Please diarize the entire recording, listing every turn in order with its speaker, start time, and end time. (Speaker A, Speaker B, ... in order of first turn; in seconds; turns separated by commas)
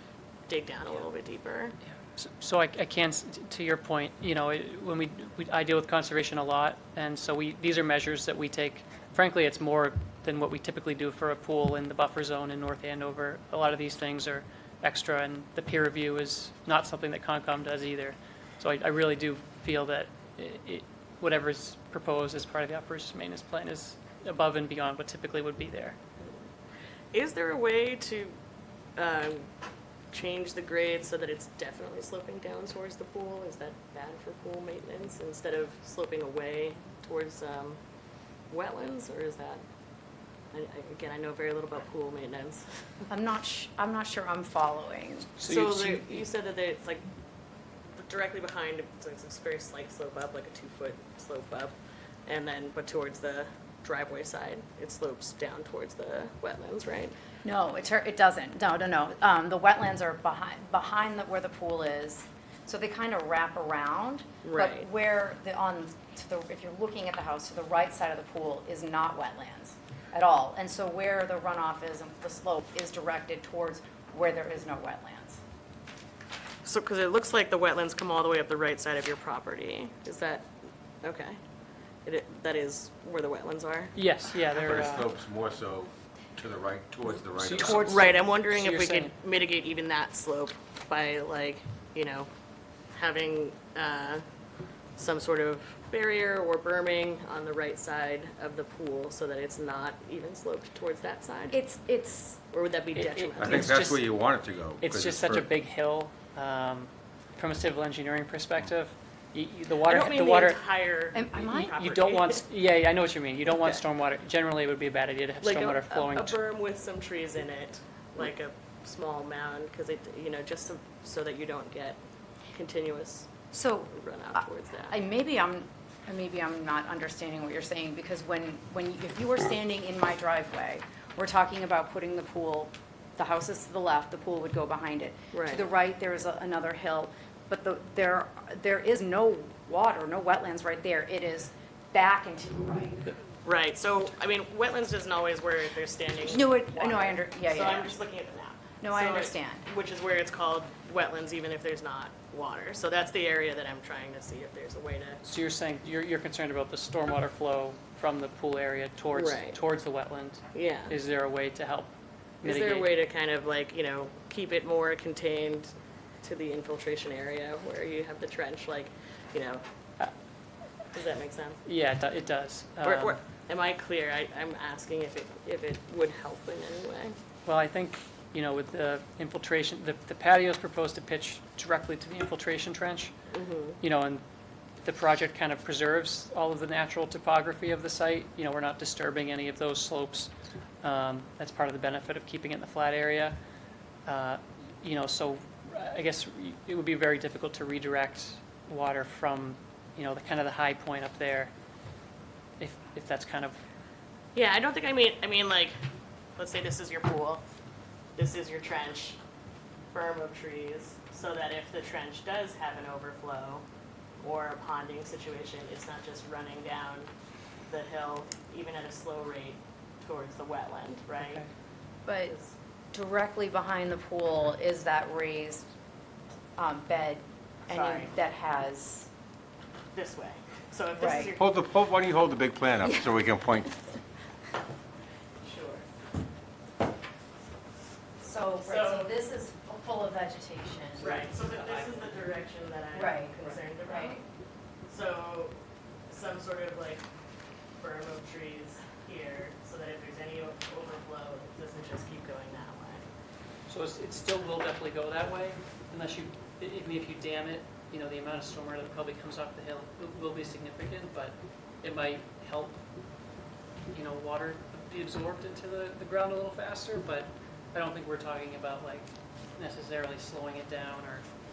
Speaker A: 0.5-1.8, Speaker B: 2.1-26.0, Speaker A: 27.1-28.4, Speaker A: 29.0-29.5, Speaker A: 30.1-37.8, Speaker A: 38.5-39.6, Speaker A: 40.5-42.7, Speaker C: 43.1-45.3, Speaker B: 45.4-46.2, Speaker A: 45.4-47.0, Speaker A: 47.9-51.7, Speaker A: 52.3-57.1, Speaker C: 57.4-75.4, Speaker A: 64.4-64.9, Speaker A: 76.6-80.5, Speaker A: 81.0-81.4, Speaker A: 82.0-84.0, Speaker B: 84.0-85.1, Speaker D: 84.5-88.0, Speaker B: 87.3-89.1, Speaker A: 87.7-92.3, Speaker A: 92.9-94.2, Speaker A: 95.0-101.6, Speaker C: 101.5-102.4, Speaker A: 102.5-103.9, Speaker B: 103.0-104.3, Speaker D: 103.4-105.5, Speaker B: 104.8-110.6, Speaker A: 109.8-112.4, Speaker C: 111.1-111.8, Speaker B: 111.7-116.4, Speaker A: 113.5-113.8, Speaker A: 115.4-122.0, Speaker A: 122.5-125.0, Speaker C: 123.5-143.1, Speaker A: 135.3-135.7, Speaker A: 143.4-155.2, Speaker C: 146.3-148.0, Speaker C: 148.8-149.7, Speaker B: 155.2-162.9, Speaker A: 159.2-159.6, Speaker A: 160.5-160.9, Speaker A: 162.4-165.7, Speaker A: 166.2-169.6, Speaker A: 170.9-171.6, Speaker B: 171.7-173.2, Speaker A: 172.8-177.2, Speaker B: 177.5-183.3, Speaker A: 183.3-183.8, Speaker B: 183.8-184.2, Speaker B: 184.8-190.3, Speaker B: 190.8-193.4, Speaker B: 194.1-201.5, Speaker B: 202.6-203.6, Speaker A: 204.3-205.8, Speaker A: 206.4-207.4, Speaker A: 208.2-209.2, Speaker A: 209.9-213.6, Speaker A: 214.2-217.1, Speaker A: 217.7-221.4, Speaker C: 222.1-222.3, Speaker A: 222.3-222.5, Speaker C: 222.9-225.7, Speaker C: 226.6-229.1, Speaker A: 227.7-228.1, Speaker A: 229.9-231.5, Speaker C: 230.9-231.3, Speaker D: 231.4-233.7, Speaker A: 235.4-235.9, Speaker C: 238.2-241.3, Speaker A: 238.6-239.2, Speaker A: 241.0-244.2, Speaker C: 242.9-244.2, Speaker A: 244.9-245.6, Speaker A: 246.1-247.0, Speaker A: 247.8-253.1, Speaker B: 253.7-262.8, Speaker B: 263.9-271.3